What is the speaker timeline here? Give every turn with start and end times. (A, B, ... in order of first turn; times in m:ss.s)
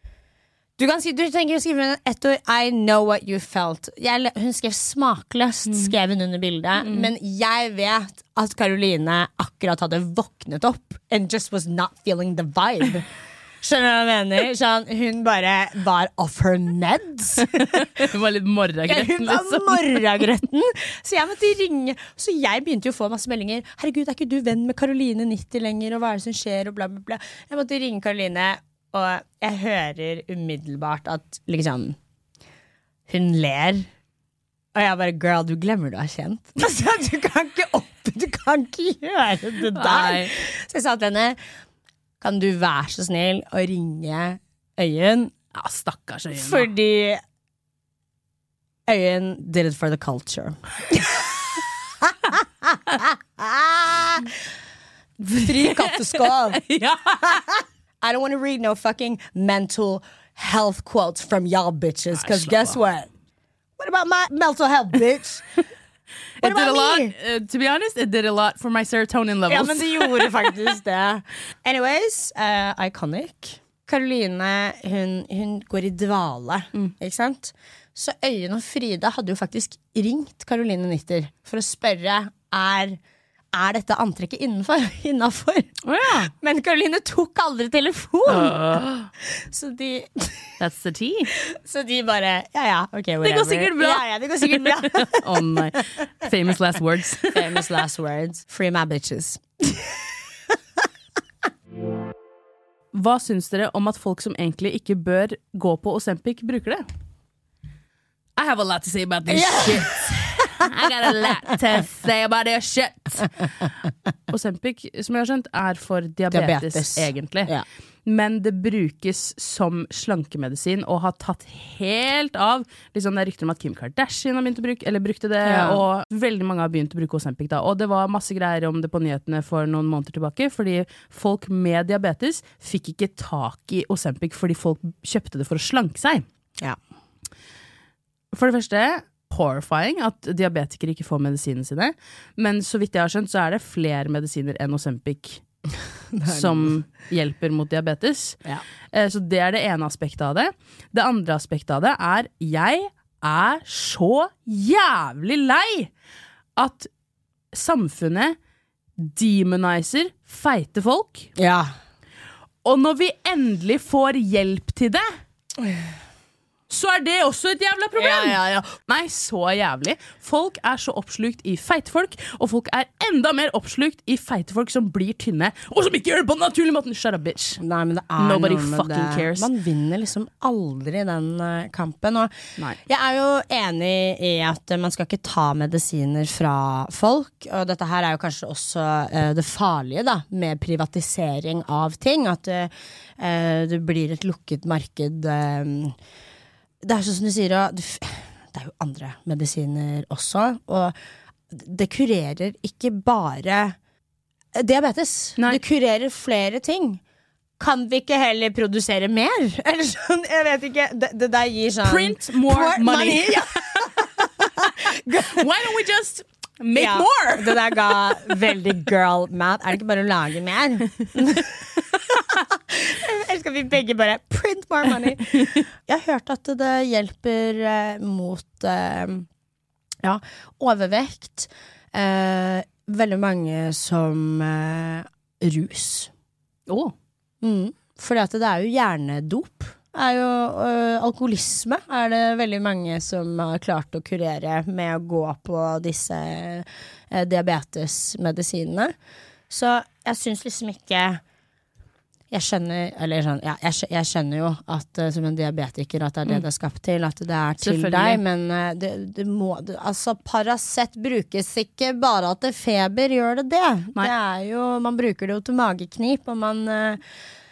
0:00.8-0:13.0 A
0:06.8-0:07.1 B
0:13.6-0:18.1 A
0:17.4-0:20.2 B
0:18.9-0:32.0 A
0:33.1-0:33.9 A
0:34.7-0:41.4 A
0:39.7-0:40.3 B
0:42.2-0:45.3 A
0:45.5-0:46.7 B
0:46.3-0:47.2 A
0:48.9-0:51.3 A
0:52.0-0:54.4 A
0:55.2-0:56.6 A
0:55.3-0:57.6 B
0:57.2-1:03.1 A
1:02.1-1:02.8 B
1:03.8-1:05.5 A
1:06.4-1:10.5 B
1:06.4-1:07.1 A
1:09.5-1:23.0 A
1:23.5-1:25.7 A
1:25.8-1:26.3 B
1:26.3-1:28.6 A
1:28.3-1:29.1 B
1:29.2-1:30.5 A
1:30.6-1:31.3 B
1:31.4-1:35.8 A
1:33.2-1:37.6 B
1:37.3-1:40.5 A
1:42.9-1:46.8 B
1:48.4-1:53.7 B
1:49.3-1:50.7 A
1:54.3-1:57.5 B
1:56.3-1:57.6 A
1:58.0-2:16.2 B
2:05.4-2:05.8 A
2:18.3-2:25.4 B
2:26.1-2:26.7 A
2:26.2-2:28.4 B
2:28.9-2:35.9 B
2:36.6-2:36.9 B
2:37.5-2:38.4 B
2:39.0-2:41.3 B
2:41.4-2:41.7 A
2:42.6-2:45.1 B
2:46.7-2:57.6 B
2:48.0-2:48.7 A
2:57.6-3:15.9 A
2:58.2-2:59.5 B
3:16.8-3:20.9 A
3:21.5-3:23.8 A
3:24.5-3:27.0 A
3:27.6-3:35.5 A
3:31.8-3:33.6 B
3:35.1-3:37.6 B
3:36.7-3:49.3 A
3:50.0-3:56.1 A
3:56.7-3:56.9 B
3:57.4-4:08.9 A
4:09.5-4:11.2 A
4:12.3-4:27.0 A
4:17.6-4:18.2 B